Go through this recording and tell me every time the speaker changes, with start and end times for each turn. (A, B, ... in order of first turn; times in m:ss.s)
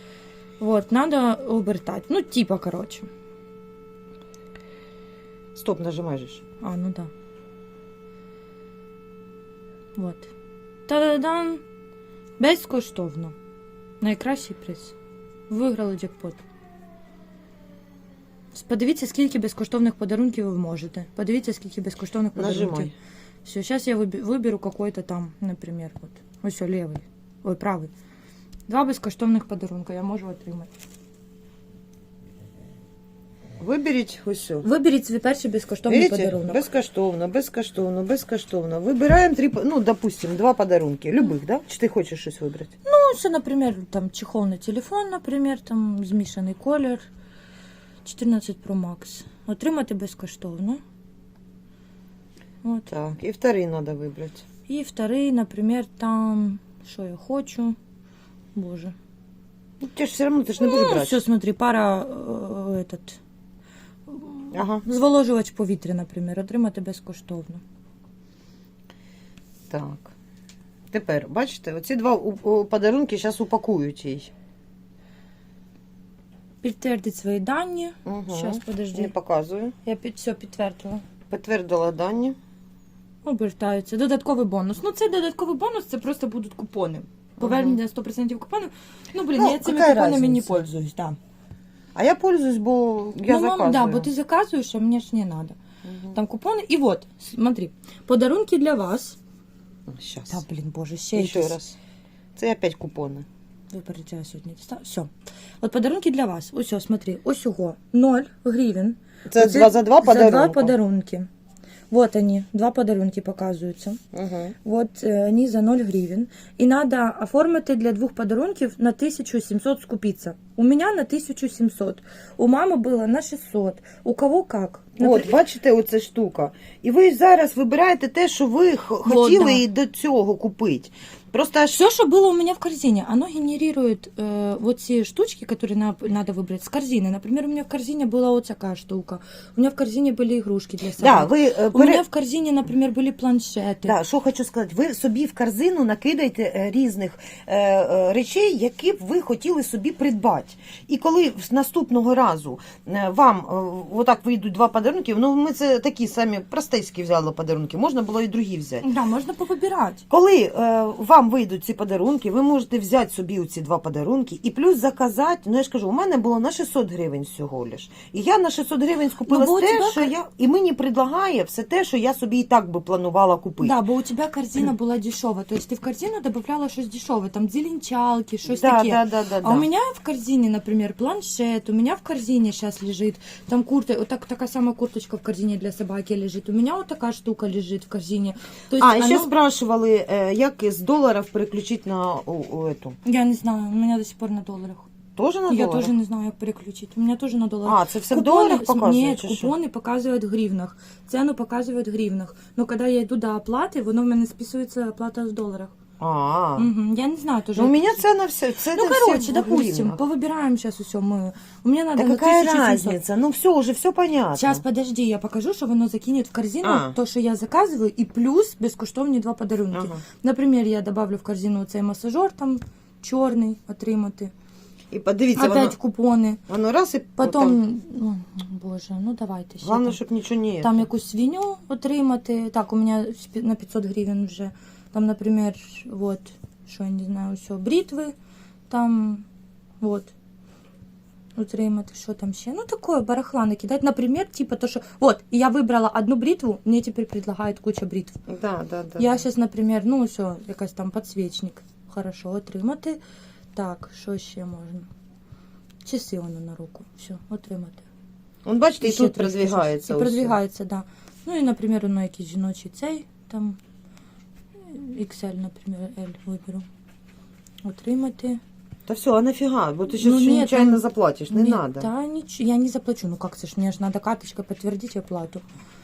0:00.6-0:03.1 A
0:05.6-0:06.4 B
0:06.6-0:07.1 A
0:10.0-0:10.3 A
0:10.9-0:11.6 A
0:12.4-0:13.4 A
0:14.0-0:15.0 A
0:15.5-0:16.4 A
0:18.5-0:22.9 A
0:22.4-0:22.9 B
0:23.4-0:27.9 A
0:28.7-0:30.7 A
0:33.6-0:34.7 B
0:34.6-0:36.6 A
0:35.9-0:42.7 B
0:42.8-0:47.1 A
0:48.0-0:50.8 A
0:52.6-0:52.9 A
0:52.9-0:54.4 B
0:54.7-0:57.8 A
0:58.6-0:59.0 A
0:59.8-1:01.2 B
1:00.6-1:03.2 A
1:04.1-1:07.6 A
1:04.5-1:04.8 B
1:09.7-1:10.1 B
1:10.9-1:14.3 B
1:16.6-1:19.1 A
1:18.0-1:19.8 B
1:19.8-1:21.0 A
1:21.3-1:22.4 B
1:23.2-1:31.2 A
1:27.4-1:27.8 B
1:29.4-1:30.6 B
1:32.0-1:34.1 B
1:33.3-1:35.6 A
1:35.8-1:36.2 B
1:36.1-1:39.2 A
1:39.9-1:40.4 B
1:40.3-1:41.6 A
1:41.2-1:41.8 B
1:42.4-1:43.3 B
1:43.7-1:45.1 A
1:45.6-1:51.3 A
1:49.3-1:50.7 B
1:51.9-1:54.0 A
1:54.1-1:54.6 B
1:54.6-2:05.4 A
2:05.0-2:11.8 B
2:09.0-2:09.6 A
2:11.7-2:23.9 A
2:21.0-2:22.0 B
2:23.8-2:38.9 B
2:38.8-2:40.0 A
2:40.1-2:53.8 B
2:49.2-2:50.1 A
2:53.6-3:09.3 A
2:58.5-2:59.7 B
3:08.8-3:13.0 B
3:13.0-3:14.9 A
3:15.2-3:15.9 B
3:15.5-3:25.7 A
3:17.6-3:19.5 B
3:26.0-3:26.7 B
3:26.6-3:28.0 A
3:27.6-3:30.0 B
3:28.7-3:33.0 A
3:32.0-3:34.6 B
3:34.4-3:44.3 A
3:36.6-3:37.0 B
3:39.7-3:40.0 B
3:44.9-3:45.8 B
3:45.4-3:46.4 A
3:46.5-3:47.6 B
3:47.2-3:50.0 A
3:49.6-3:50.9 B
3:50.6-3:58.2 A
3:58.7-3:59.2 A
3:59.8-4:00.1 A
4:01.4-4:08.2 A
4:08.3-4:09.2 B
4:09.0-4:13.0 A
4:13.6-4:14.9 A
4:15.8-4:17.8 A
4:18.4-4:20.4 B
4:18.8-4:23.6 A
4:24.6-4:26.7 A
4:27.6-4:28.4 A
4:28.9-4:31.9 B
4:29.9-4:35.4 A